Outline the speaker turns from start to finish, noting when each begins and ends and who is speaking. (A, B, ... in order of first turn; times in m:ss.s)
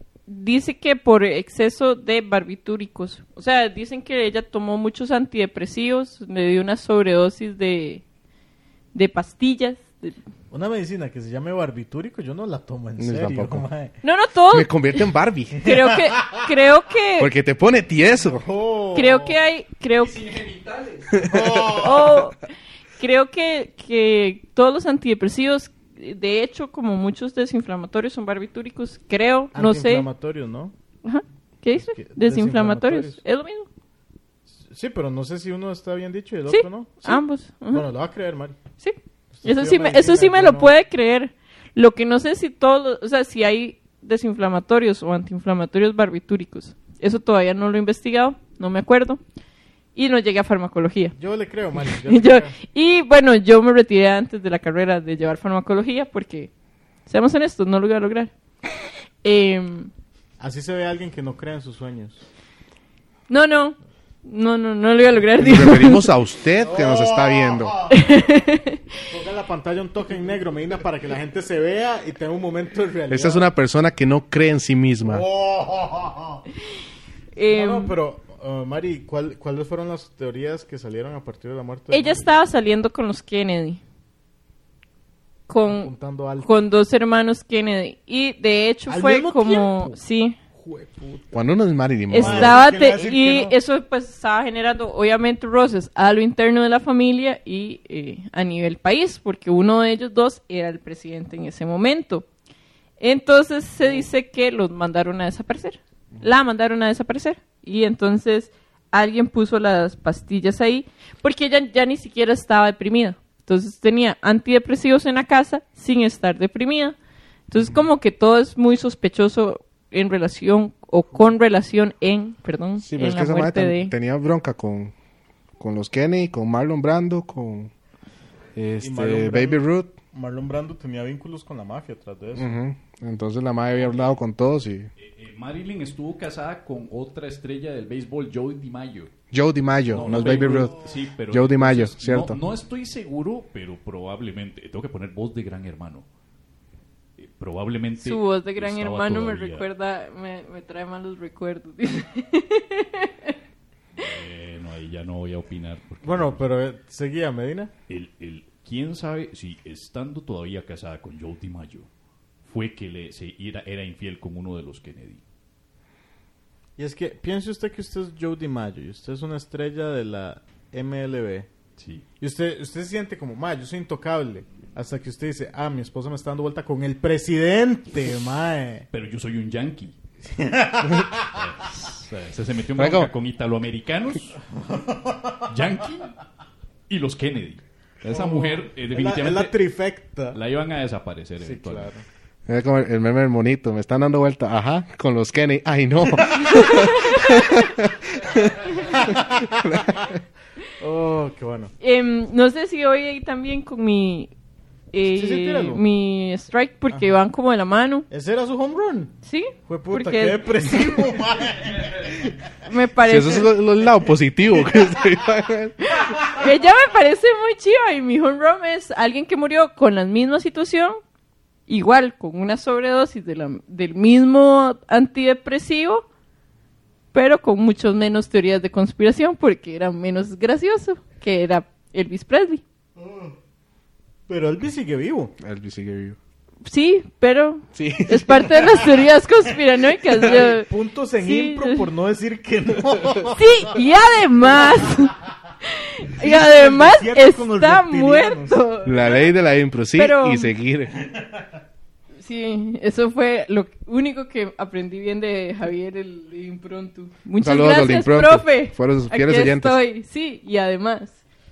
0:00.3-0:08.0 A
0:08.9-0:10.2 A
0:10.5-0:14.0 B
0:13.0-0:13.7 C
0:14.0-0:14.7 A
0:14.5-0:15.7 C
0:15.5-0:17.3 A
0:15.7-0:16.4 B
0:17.2-0:18.4 C
0:18.2-0:19.3 B
0:18.9-0:20.3 A
0:20.1-0:21.1 D
0:21.1-0:21.7 C
0:21.2-0:22.2 B
0:21.7-0:22.5 A
0:23.0-0:30.1 A
0:29.5-0:30.7 B
0:31.0-0:33.7 A
0:31.8-0:33.2 B
0:34.6-0:38.6 B
0:36.5-0:37.8 A
0:38.8-0:49.2 A
0:39.3-0:40.7 B
0:50.0-0:51.2 A
0:51.2-0:52.5 B
0:51.8-0:56.5 A
0:57.1-0:58.3 A
0:59.2-0:59.9 A
1:00.4-1:02.3 B
1:03.3-1:06.0 A
1:05.4-1:07.8 C
1:06.6-1:08.0 B
1:07.9-1:09.0 A
1:09.1-1:13.5 B
1:13.1-1:15.2 C
1:15.0-1:16.4 B
1:17.3-1:18.0 A
1:17.5-1:22.3 B
1:21.9-1:23.8 A
1:25.5-1:30.4 A
1:25.7-1:26.5 B
1:28.9-1:30.0 B
1:30.5-1:31.4 B
1:31.3-1:32.6 C
1:32.1-1:42.3 A
1:32.2-1:33.6 B
1:43.0-1:57.0 A
1:57.5-2:03.9 A
2:02.8-2:04.9 C
2:05.6-2:07.7 C
2:08.6-2:10.0 C
2:08.8-2:12.5 B
2:12.4-2:14.9 C
2:15.0-2:19.1 D
2:19.3-2:20.7 C
2:19.9-2:21.0 B
2:19.9-2:26.0 D
2:21.3-2:22.4 C
2:27.2-2:29.7 D
2:28.0-2:33.4 A
2:34.0-2:36.4 D
2:36.0-2:37.7 B
2:37.9-2:41.9 D
2:42.4-2:45.2 D
2:46.8-2:51.5 B
2:51.8-2:52.0 D
2:52.2-2:58.9 B
2:58.9-2:59.9 D
3:00.2-3:01.4 B
3:01.3-3:04.4 D
3:02.8-3:03.1 C
3:04.5-3:05.4 B
3:05.4-3:06.2 D
3:06.9-3:09.6 D
3:08.1-3:10.4 B
3:10.3-3:11.9 D
3:11.4-3:12.0 B
3:12.5-3:20.2 C
3:16.2-3:16.6 B
3:16.4-3:17.7 A
3:18.7-3:20.2 B
3:18.8-3:19.0 A
3:20.8-3:21.7 B
3:21.8-3:24.3 A
3:24.9-3:28.1 A
3:25.1-3:25.8 B
3:28.1-3:29.2 B
3:29.2-3:30.5 A
3:29.7-3:32.5 B
3:32.6-3:33.5 A
3:33.0-3:36.2 C
3:36.3-3:41.0 A
3:41.7-3:46.0 A
3:47.1-3:52.6 A
3:53.0-3:53.3 B
3:54.3-3:55.3 B
3:55.4-3:56.2 C
3:56.6-4:01.8 A
3:57.7-3:58.8 C
4:00.1-4:03.4 B
4:03.3-4:09.2 A
4:06.2-4:08.6 B
4:08.8-4:11.0 C
4:10.0-4:10.5 A
4:12.2-4:21.2 A
4:17.4-4:19.8 C